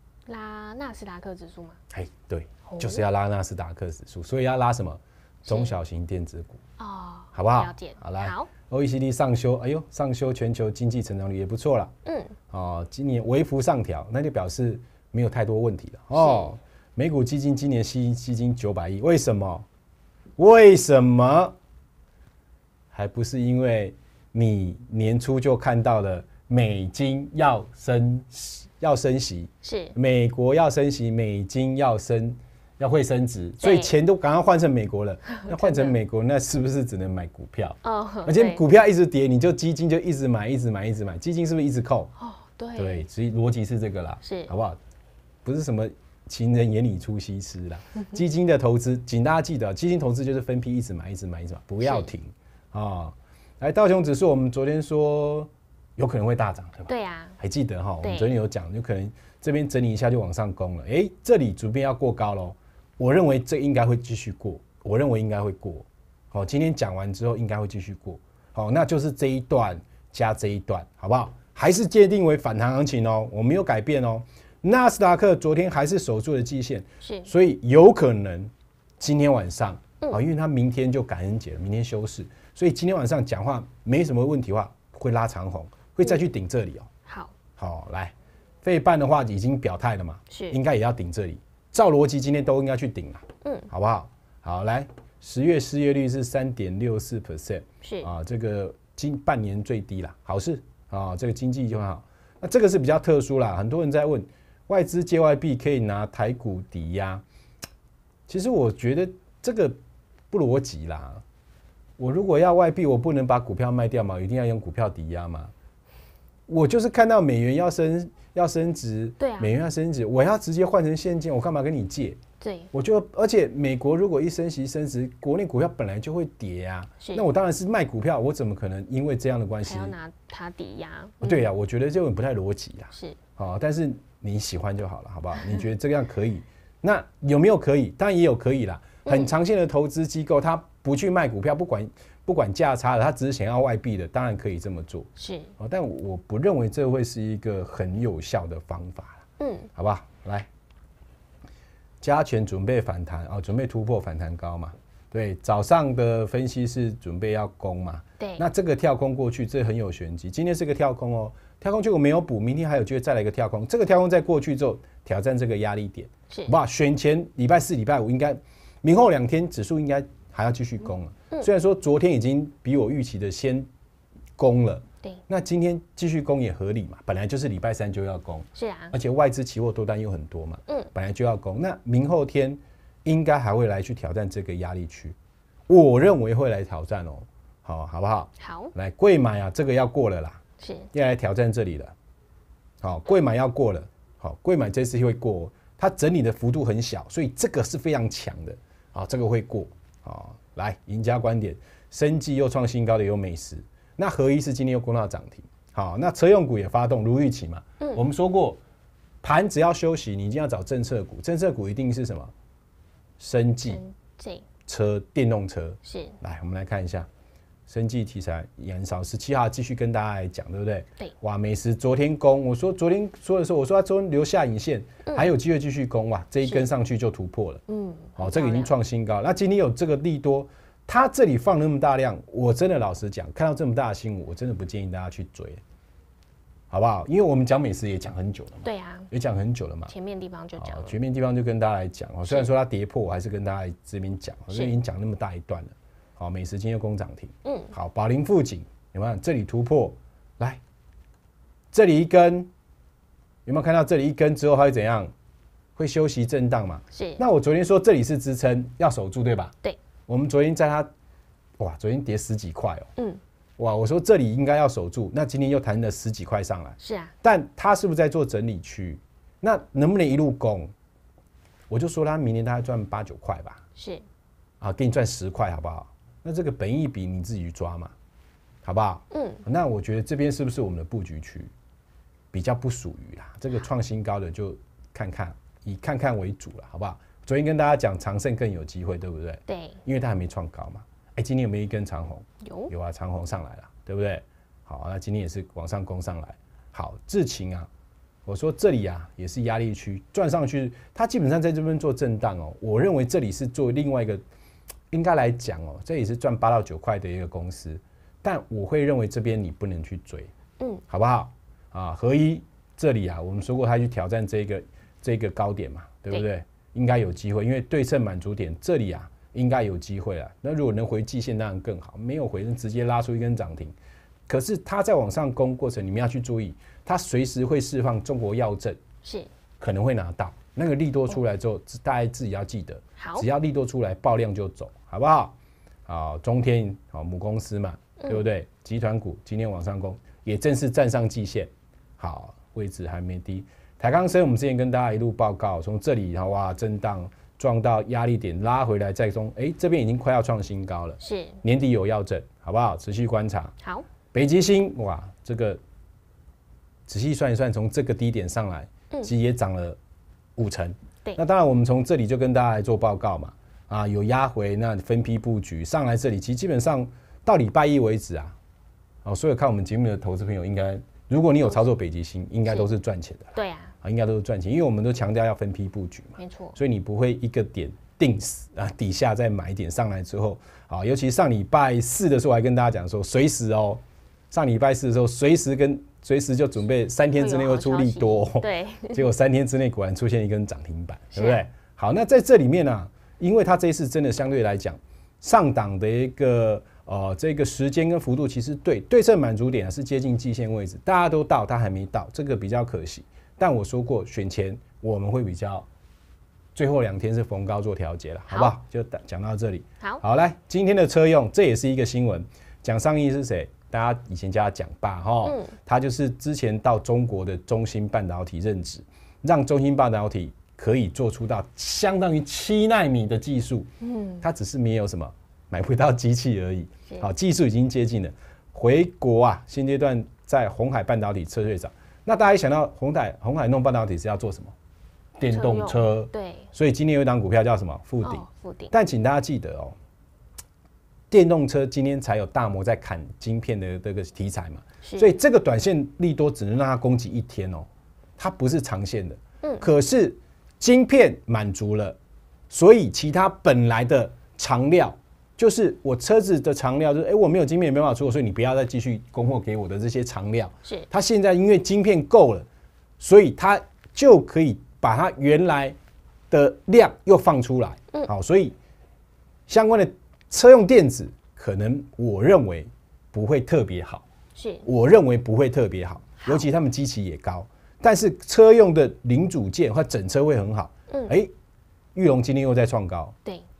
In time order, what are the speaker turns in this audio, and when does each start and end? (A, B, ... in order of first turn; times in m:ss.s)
0:00.3-0:01.8 A
0:01.9-0:06.6 B
0:02.6-0:03.0 A
0:05.4-0:05.8 A
0:06.8-0:08.5 A
0:07.3-0:11.9 B
0:12.0-0:12.4 A
0:12.5-0:19.6 B
0:16.1-0:16.5 A
0:20.4-0:21.5 B
0:22.9-0:42.1 B
0:29.6-0:30.0 A
0:33.6-0:33.9 A
0:35.5-0:35.9 A
0:37.8-0:38.6 A
0:42.2-0:43.0 A
0:42.8-0:44.8 B
0:44.2-0:44.5 A
0:45.4-1:26.9 B
0:51.8-0:52.1 A
0:56.9-0:57.4 A
0:58.0-0:58.4 A
1:17.0-1:17.3 A
1:27.1-1:27.3 A
1:27.6-1:47.2 B
1:30.3-1:30.6 A
1:33.4-1:33.7 A
1:37.8-1:38.1 A
1:48.3-1:49.8 B
1:50.3-1:51.2 B
1:52.0-1:55.5 B
1:56.5-2:02.2 B
1:59.2-1:59.5 A
2:02.4-2:02.7 A
2:02.7-2:09.9 B
2:07.0-2:07.2 A
2:09.6-2:11.5 A
2:11.2-2:30.5 B
2:12.9-2:13.2 A
2:19.0-2:19.3 A
2:25.2-2:25.5 A
2:29.4-2:29.7 A
2:32.0-2:53.7 B
2:38.2-2:38.4 A
2:46.3-2:46.5 A
2:54.4-3:05.2 B
2:58.5-2:58.9 A
3:05.7-3:11.9 B
3:08.4-3:08.7 A
3:10.6-3:10.9 A
3:12.8-3:28.6 B
3:29.2-3:32.3 B
3:33.2-3:33.8 B
3:33.6-3:34.5 A
3:34.6-3:37.1 B
3:35.8-3:36.2 A
3:37.7-3:47.6 B
3:47.7-3:48.7 A
3:48.2-3:55.6 B
3:56.7-3:59.9 B
3:58.6-3:59.1 A
3:59.9-4:00.9 A
4:00.6-4:10.6 B
4:07.4-4:07.7 A
4:11.7-4:12.5 B
4:13.4-4:15.1 B
4:15.8-4:19.5 B
4:16.9-4:17.2 A
4:20.1-4:20.9 B
4:21.6-4:22.9 B
4:23.6-4:30.7 B
4:26.8-4:27.1 A
4:31.7-4:33.6 B
4:33.8-4:34.0 A
4:34.6-4:37.9 B
4:38.6-4:41.5 B
4:39.1-4:39.4 A
4:42.3-4:57.7 B
4:49.5-4:49.8 A
4:52.4-4:52.7 A
4:58.2-5:04.2 B
5:04.9-5:10.3 B
5:10.9-5:23.7 B
5:24.3-5:28.8 B
5:29.0-5:29.3 A
5:29.6-5:35.3 B
5:33.0-5:33.2 A
5:35.9-5:53.5 B
5:51.0-5:51.4 A
5:54.1-5:55.6 B
5:56.9-5:59.8 B
6:00.4-6:08.4 B
6:09.0-6:45.7 B
6:12.4-6:12.7 A
6:13.3-6:13.7 A
6:16.2-6:16.6 A
6:27.1-6:29.1 A
6:31.1-6:31.4 A
6:46.5-7:03.7 B
6:55.2-6:55.5 A
7:03.8-7:04.2 A
7:04.2-7:14.5 B
7:15.2-7:19.7 B
7:15.3-7:16.5 A
7:18.0-7:18.7 A
7:21.1-7:27.7 B
7:24.8-7:25.1 A
7:28.2-7:32.0 B
7:32.5-7:42.4 B
7:43.0-7:45.7 B
7:46.3-7:48.5 B
7:49.5-7:54.0 B
7:54.4-7:54.6 A
7:54.6-8:01.3 B
8:01.9-8:03.1 B